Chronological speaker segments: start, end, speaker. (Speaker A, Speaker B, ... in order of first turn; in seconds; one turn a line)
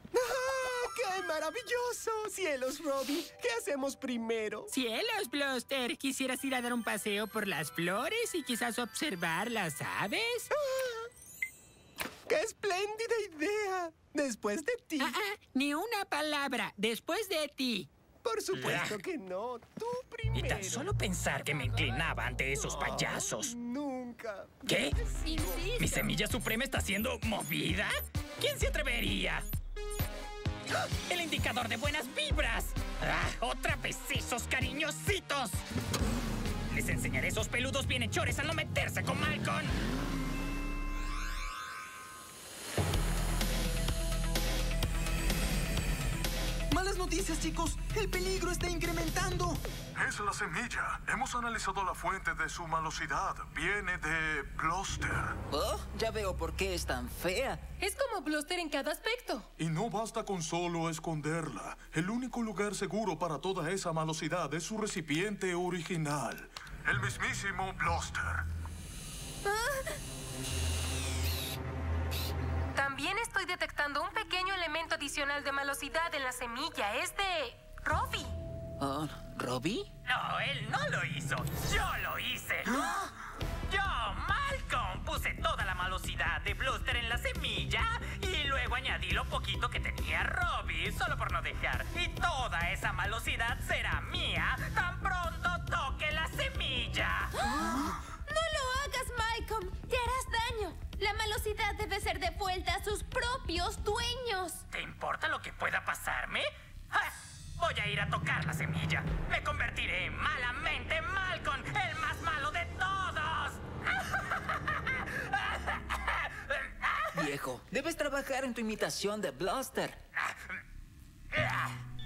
Speaker A: 0.1-4.7
Speaker B: 4.7-10.5
Speaker A: 10.6-11.1
Speaker A: 12.3-15.2
Speaker B: 15.0-17.9
Speaker A: 18.2-20.9
Speaker C: 18.5-19.0
Speaker C: 20.3-23.5
Speaker A: 22.6-24.5
Speaker C: 24.6-24.9
Speaker B: 25.2-26.2
Speaker A: 25.3-25.6
Speaker C: 25.8-29.4
Speaker C: 31.1-35.6
Speaker C: 36.7-39.8
Speaker D: 46.7-49.6
Speaker E: 50.0-55.4
Speaker F: 55.5-57.6
Speaker G: 57.8-59.5
Speaker E: 59.6-68.4
Speaker H: 69.5-70.0
Speaker G: 72.8-78.3
Speaker F: 78.8-79.9
Speaker C: 80.1-83.1
Speaker C: 83.7-97.3
Speaker H: 97.5-104.6
Speaker C: 104.7-117.3
Speaker F: 117.1-120.0
Speaker C: 120.2-120.6
Speaker C: 121.3-121.8